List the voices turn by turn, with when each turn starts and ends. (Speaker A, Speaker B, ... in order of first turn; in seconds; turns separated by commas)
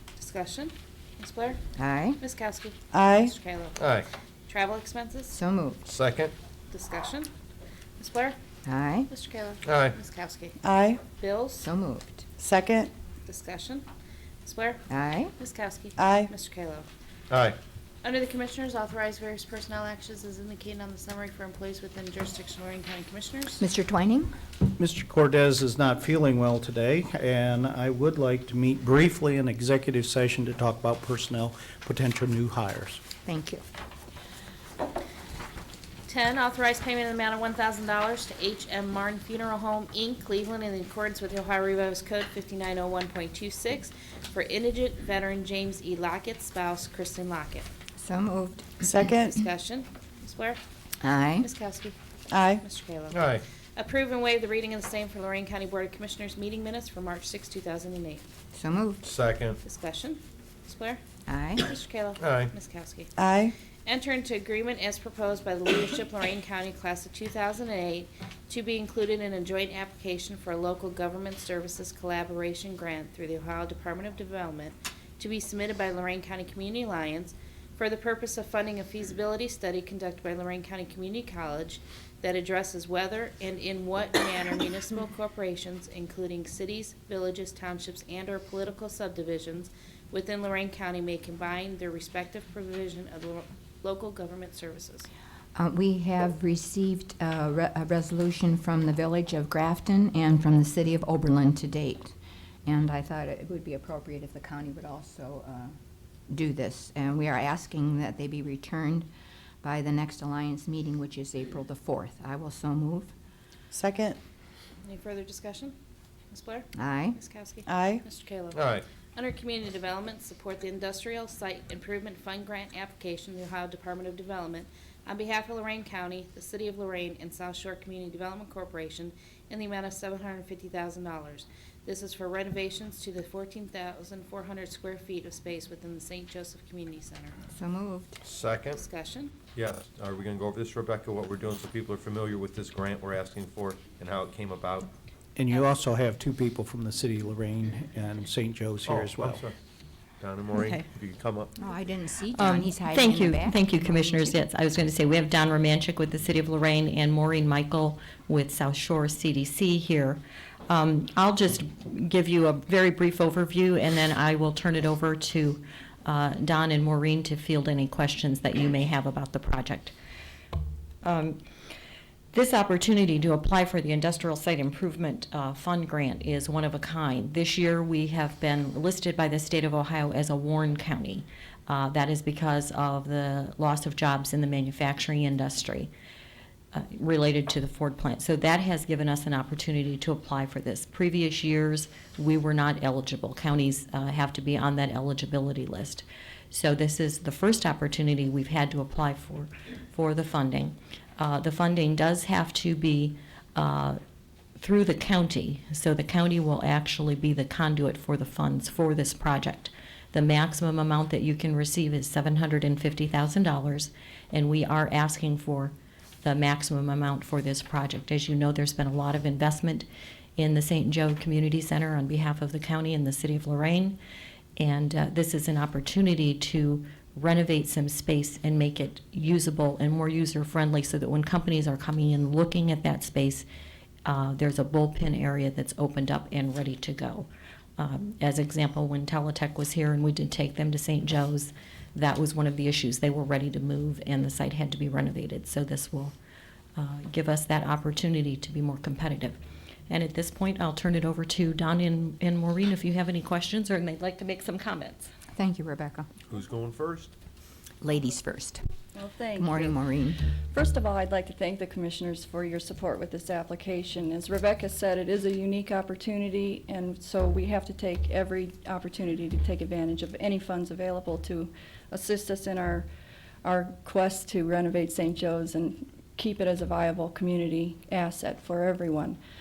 Speaker A: 0.2-1.6, Speaker B: 1.8-2.2, Speaker A: 2.2-5.3, Speaker C: 2.9-3.3, Speaker D: 3.8-4.1, Speaker B: 5.3-5.8, Speaker D: 5.8-6.3, Speaker A: 6.7-7.3, Speaker A: 8.0-8.4, Speaker B: 8.7-9.1, Speaker A: 9.1-11.7, Speaker D: 9.7-9.9, Speaker C: 10.6-11.0, Speaker B: 11.6-12.3, Speaker C: 12.4-12.9, Speaker A: 13.3-13.9, Speaker A: 14.4-14.8, Speaker B: 14.9-15.3, Speaker A: 15.4-16.9, Speaker C: 16.0-16.3, Speaker D: 17.3-17.6, Speaker A: 18.0-23.6, Speaker B: 23.6-24.4, Speaker E: 24.8-33.0, Speaker B: 33.2-33.6, Speaker A: 36.1-47.7, Speaker B: 48.0-49.1, Speaker C: 48.9-49.4, Speaker A: 49.1-50.6, Speaker B: 51.0-51.5, Speaker A: 51.4-52.0, Speaker C: 52.3-52.6, Speaker A: 52.5-58.2, Speaker D: 53.1-53.4, Speaker B: 58.5-59.0, Speaker D: 59.0-59.6, Speaker A: 59.6-61.0, Speaker B: 61.3-61.7, Speaker A: 61.6-63.1, Speaker D: 62.2-62.5, Speaker C: 63.2-63.5, Speaker A: 63.9-95.1, Speaker B: 95.5-105.8, Speaker B: 106.3-109.1, Speaker B: 109.6-113.1, Speaker C: 113.7-114.2, Speaker A: 114.8-115.7, Speaker A: 116.3-137.4, Speaker B: 116.8-117.2, Speaker C: 117.7-118.0, Speaker D: 118.5-118.8, Speaker B: 137.6-138.2, Speaker D: 138.2-138.8, Speaker A: 138.7-139.3, Speaker D: 139.6-144.9, Speaker E: 145.4-149.4, Speaker D: 148.9-149.5, Speaker D: 150.2-151.5, Speaker F: 150.5-150.8, Speaker B: 151.6-154.3, Speaker F: 152.3-169.9, Speaker F: 171.0-171.4, Speaker F: 172.3-185.9, Speaker F: 186.7-204.0, Speaker F: 204.6-219.9, Speaker F: 220.4-224.0, Speaker F: 224.6-233.4, Speaker F: 234.1-237.3, Speaker F: 237.8-246.1, Speaker F: 246.8-249.4, Speaker F: 249.9-255.1, Speaker B: 255.3-256.1, Speaker D: 256.3-257.1, Speaker B: 257.8-258.6, Speaker G: 258.9-259.8, Speaker B: 259.4-260.3, Speaker G: 260.5-272.9, Speaker G: 273.4-279.2